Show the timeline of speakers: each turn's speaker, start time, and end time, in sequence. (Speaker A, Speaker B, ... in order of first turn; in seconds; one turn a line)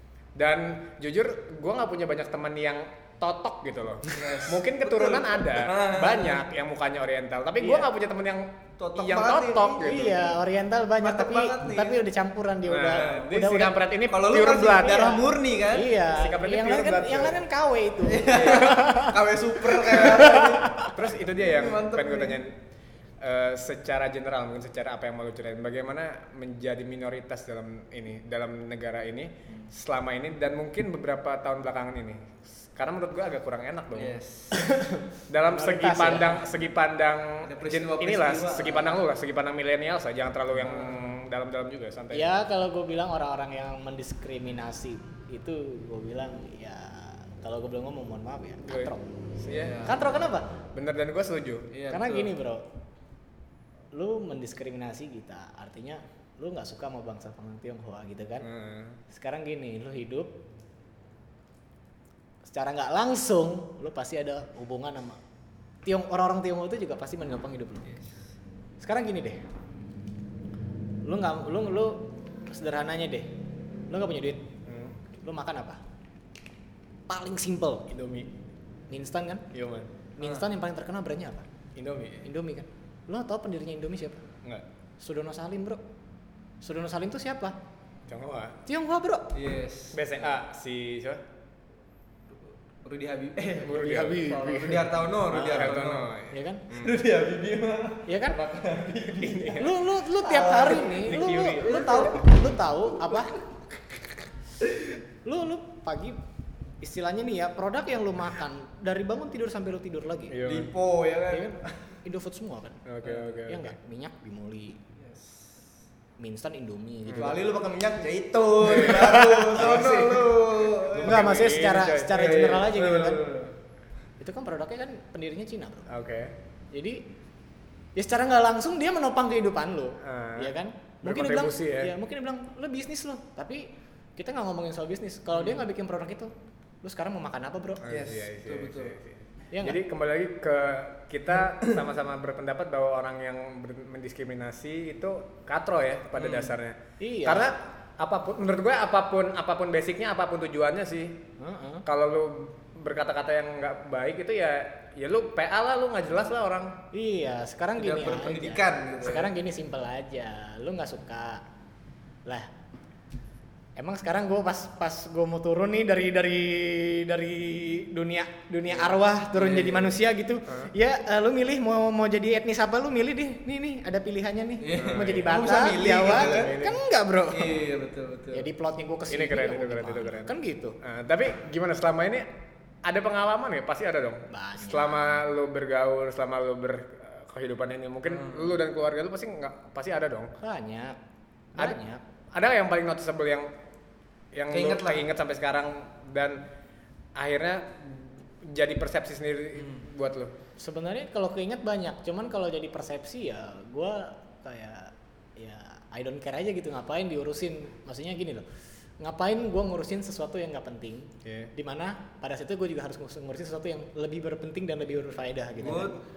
Speaker A: 0.3-10.2
Speaker B: 4.1-6.5
Speaker C: 7.6-7.9
Speaker B: 8.8-10.3
Speaker C: 9.7-13.8
Speaker B: 11.0-12.1
Speaker A: 12.7-15.2
Speaker B: 12.9-13.3
Speaker B: 14.1-15.9
Speaker C: 14.8-20.9
Speaker A: 16.1-17.4
Speaker B: 18.0-22.4
Speaker A: 18.3-18.8
Speaker A: 20.9-22.6
Speaker A: 23.2-34.2
Speaker B: 33.9-34.7
Speaker C: 34.6-36.4
Speaker A: 35.3-42.3
Speaker B: 37.4-39.0
Speaker B: 40.6-41.0
Speaker C: 42.1-49.1
Speaker A: 48.7-49.9
Speaker B: 49.5-50.1
Speaker C: 49.8-50.5
Speaker A: 50.7-51.7
Speaker B: 51.7-52.3
Speaker C: 51.9-52.6
Speaker C: 53.9-58.5
Speaker A: 58.4-59.0
Speaker C: 59.1-60.3
Speaker C: 62.4-65.2
Speaker C: 65.8-67.9
Speaker C: 68.8-69.4
Speaker C: 71.0-73.3
Speaker C: 73.9-74.5
Speaker A: 74.6-75.0
Speaker C: 75.2-75.8
Speaker C: 77.1-77.9
Speaker A: 77.9-78.3
Speaker C: 78.9-79.5
Speaker A: 79.5-79.9
Speaker C: 80.2-81.5
Speaker A: 81.8-82.3
Speaker C: 82.2-84.2
Speaker C: 85.0-85.8
Speaker C: 86.6-87.5
Speaker A: 88.1-88.6
Speaker C: 88.7-89.3
Speaker B: 89.3-90.0
Speaker A: 89.9-91.2
Speaker B: 92.8-96.1
Speaker A: 93.6-97.0
Speaker C: 93.7-94.7
Speaker C: 95.3-95.8
Speaker C: 96.3-96.7
Speaker B: 96.7-99.7
Speaker C: 98.0-98.4
Speaker A: 99.1-99.8
Speaker C: 99.5-103.4
Speaker B: 100.2-102.3
Speaker A: 100.9-102.1
Speaker C: 105.2-106.2
Speaker C: 106.8-110.4
Speaker A: 110.3-110.7
Speaker B: 110.4-111.8
Speaker C: 111.3-112.8
Speaker A: 112.8-113.7
Speaker B: 113.0-113.3
Speaker C: 113.4-114.8
Speaker B: 115.0-115.5
Speaker C: 116.2-117.4
Speaker A: 117.0-117.4
Speaker B: 117.2-121.5
Speaker C: 118.7-119.7
Speaker A: 119.5-122.2
Speaker C: 121.0-123.2
Speaker B: 122.1-123.5
Speaker C: 124.2-125.9
Speaker A: 125.9-126.3
Speaker C: 126.7-127.0
Speaker C: 128.0-137.9
Speaker A: 130.0-131.9
Speaker A: 137.8-151.2
Speaker B: 137.9-139.0
Speaker C: 139.5-139.8
Speaker B: 146.2-146.5
Speaker C: 147.0-147.5
Speaker C: 151.4-151.8
Speaker A: 151.8-156.8
Speaker C: 156.9-161.4
Speaker B: 157.8-159.3
Speaker C: 163.8-177.6
Speaker B: 169.3-169.9
Speaker B: 174.6-176.6
Speaker A: 174.7-175.4
Speaker A: 175.9-176.8
Speaker B: 177.3-178.5
Speaker C: 178.3-180.8
Speaker A: 179.1-182.3
Speaker A: 182.8-190.3
Speaker C: 184.3-185.2
Speaker B: 188.1-188.5
Speaker C: 190.4-191.0
Speaker C: 191.5-192.0
Speaker A: 192.3-193.5
Speaker A: 194.3-196.4
Speaker B: 194.5-195.0
Speaker A: 197.2-200.3
Speaker B: 199.6-199.8
Speaker C: 200.6-208.4
Speaker C: 209.0-216.0
Speaker A: 211.2-211.5
Speaker B: 215.6-216.0